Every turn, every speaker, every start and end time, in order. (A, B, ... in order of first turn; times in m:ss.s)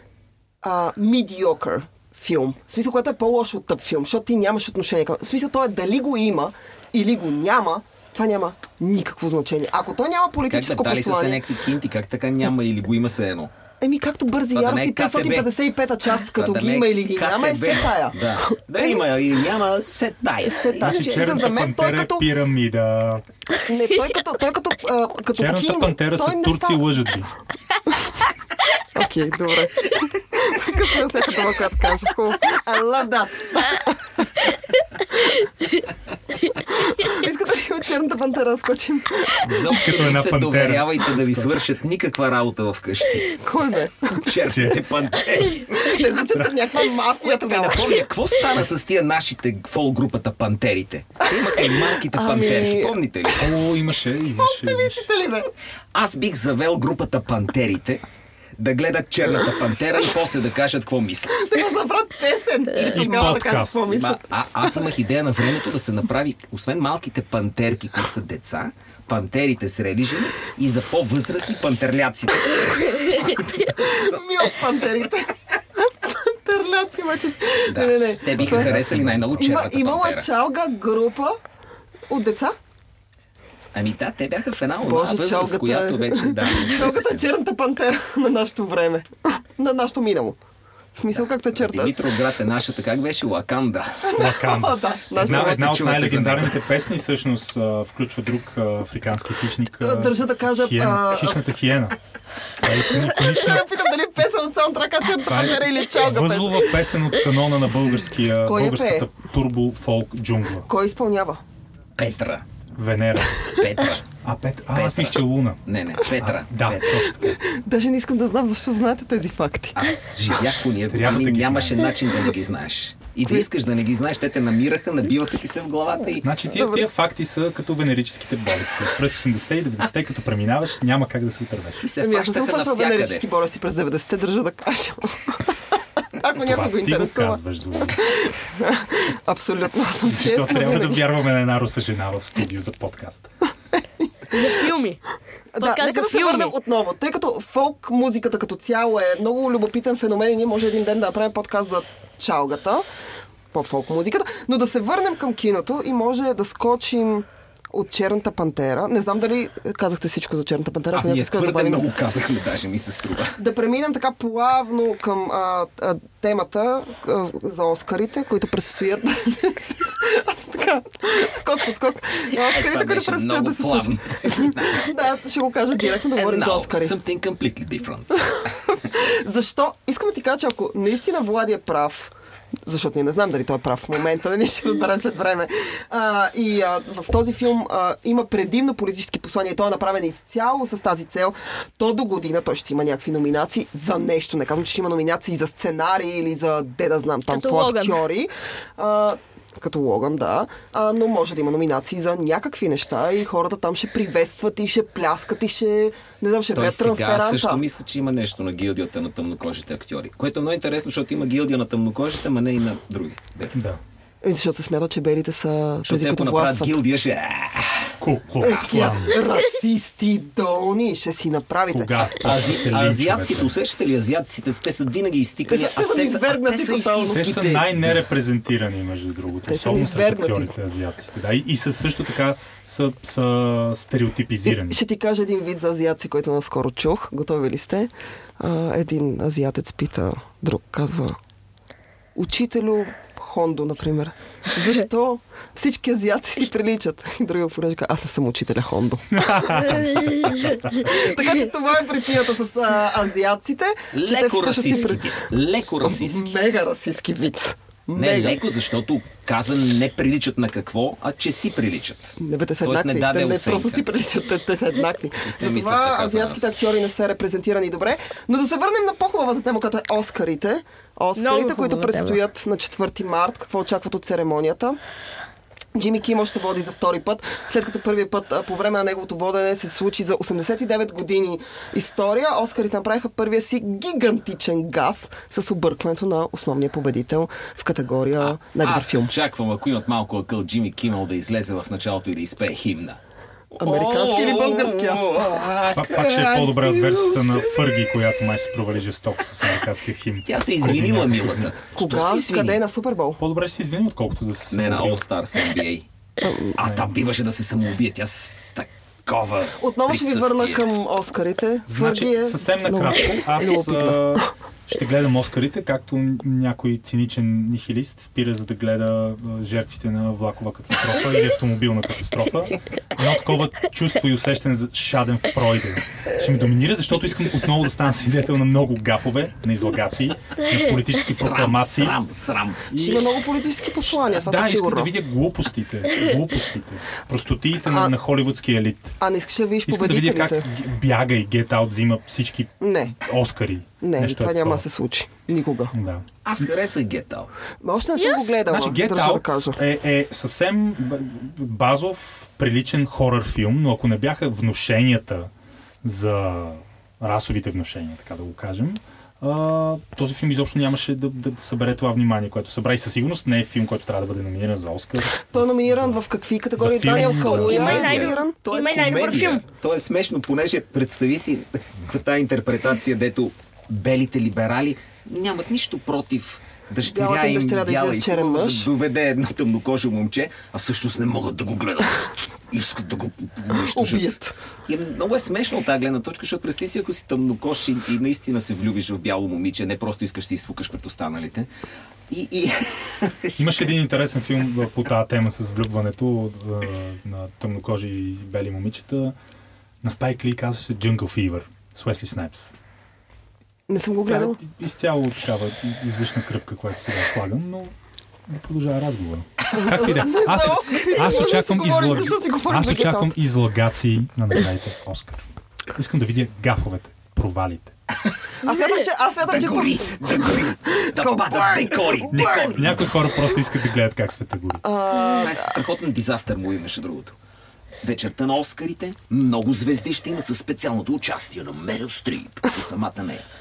0:00.6-0:11.4 A
0:10.5-0:13.5 B
0:13.8-0:18.9 A
0:14.5-0:15.5 B
0:16.2-0:21.4 B
0:20.4-0:22.3 A
0:20.8-0:23.2 C
0:23.6-0:26.9 A
0:25.4-0:27.3 C
0:27.9-0:28.1 A
0:28.9-0:34.2 A
0:36.7-0:39.7 A
0:39.4-0:43.4 B
0:39.7-0:41.5 C
0:43.3-0:44.3 A
0:44.1-0:46.0 B
0:44.5-0:44.8 C
0:45.7-0:48.0 A
0:47.2-0:53.5 B
0:51.3-0:52.9 A
0:53.4-0:55.0 C
0:54.3-0:55.5 A
0:55.9-0:58.0 B
0:58.6-1:01.5 B
1:01.3-1:04.2 A
1:02.8-1:03.3 B
1:02.9-1:03.8 C
1:03.8-1:14.2 B
1:13.6-1:21.4 A
1:17.7-1:20.2 B
1:18.4-1:19.4 C
1:22.1-1:22.5 A
1:23.7-1:27.3 B
1:24.8-1:30.4 A
1:31.0-1:32.0 A
1:31.1-1:34.1 B
1:34.0-1:35.8 A
1:34.2-1:42.0 C
1:35.2-1:36.6 B
1:39.8-1:41.4 A
1:42.6-1:43.7 C
1:43.0-1:46.7 A
1:45.2-1:50.7 C
1:48.4-1:49.1 A
1:50.7-1:51.4 A
1:52.0-1:52.4 B
1:52.8-1:53.5 C
1:53.5-1:54.0 B
1:54.2-1:57.4 C
1:54.7-1:57.1 B
1:57.2-1:59.8 A
1:59.7-2:06.3 B
2:00.9-2:01.9 C
2:06.2-2:11.8 C
2:06.5-2:06.9 A
2:11.8-2:13.2 B
2:12.0-2:21.0 A
2:16.4-2:18.1 C
2:20.1-2:23.3 C
2:24.3-2:25.0 D
2:25.5-2:32.8 A
2:25.6-2:26.5 D
2:33.5-2:41.8 A
2:40.9-2:43.4 B
2:43.4-2:57.0 A
2:52.3-2:54.9 B
2:56.2-2:58.8 B
2:58.3-3:02.1 A
3:02.6-3:27.6 A
3:17.3-3:18.0 D
3:26.5-3:33.6 B
3:33.5-3:33.8 C
3:34.2-3:36.8 A
3:35.8-3:37.9 B
3:38.0-3:39.2 C
3:38.4-3:42.1 A
3:41.7-3:43.5 C
3:42.2-3:48.0 B
3:45.5-3:47.3 A
3:47.1-3:54.8 C
3:49.5-3:50.5 A
3:54.4-4:01.2 A
4:02.1-4:10.1 A
4:09.1-4:11.0 C
4:10.7-4:15.2 A
4:13.9-4:16.3 B
4:15.8-4:18.4 A
4:17.9-4:23.8 B
4:22.2-4:34.8 A
4:25.2-4:26.6 B
4:31.2-4:32.2 D
4:35.7-4:49.1 A
4:48.2-4:53.0 B
4:53.5-4:57.8 B
4:53.6-4:55.2 A
4:55.7-5:01.5 C
5:00.2-5:02.6 B
5:01.7-5:03.2 A
5:03.2-5:05.0 C
5:04.5-5:05.8 B
5:06.2-5:06.5 A
5:06.5-5:10.6 B
5:06.6-5:06.9 C
5:09.6-5:14.2 A
5:11.7-5:32.0 C
5:31.0-5:32.7 B
5:32.7-5:33.0 C
5:32.7-5:34.9 A
5:34.1-5:38.9 C
5:37.6-5:37.9 A
5:39.0-5:40.5 A
5:39.6-5:44.6 C
5:42.6-5:42.9 A
5:43.8-5:45.7 A
5:45.7-5:46.0 C
5:46.2-5:47.3 B
5:47.6-5:49.6 A
5:48.0-5:48.3 D
5:48.4-5:55.3 C
5:55.8-6:06.0 C
6:05.2-6:08.9 A
6:06.6-6:08.0 C
6:06.9-6:24.1 B
6:07.4-6:09.4 D
6:16.8-6:18.7 A
6:23.5-6:24.3 A
6:24.7-6:31.5 B
6:32.1-6:33.7 B
6:33.4-6:39.1 C
6:39.8-6:42.5 C
6:43.7-6:44.4 A
6:44.0-6:47.7 C
6:48.3-6:55.2 C
6:49.5-6:53.1 A
6:55.7-6:57.7 C
6:58.4-7:02.5 A
6:59.2-7:03.0 B
7:02.1-7:04.6 C
7:04.6-7:05.5 A
7:05.1-7:07.1 B
7:07.8-7:13.2 B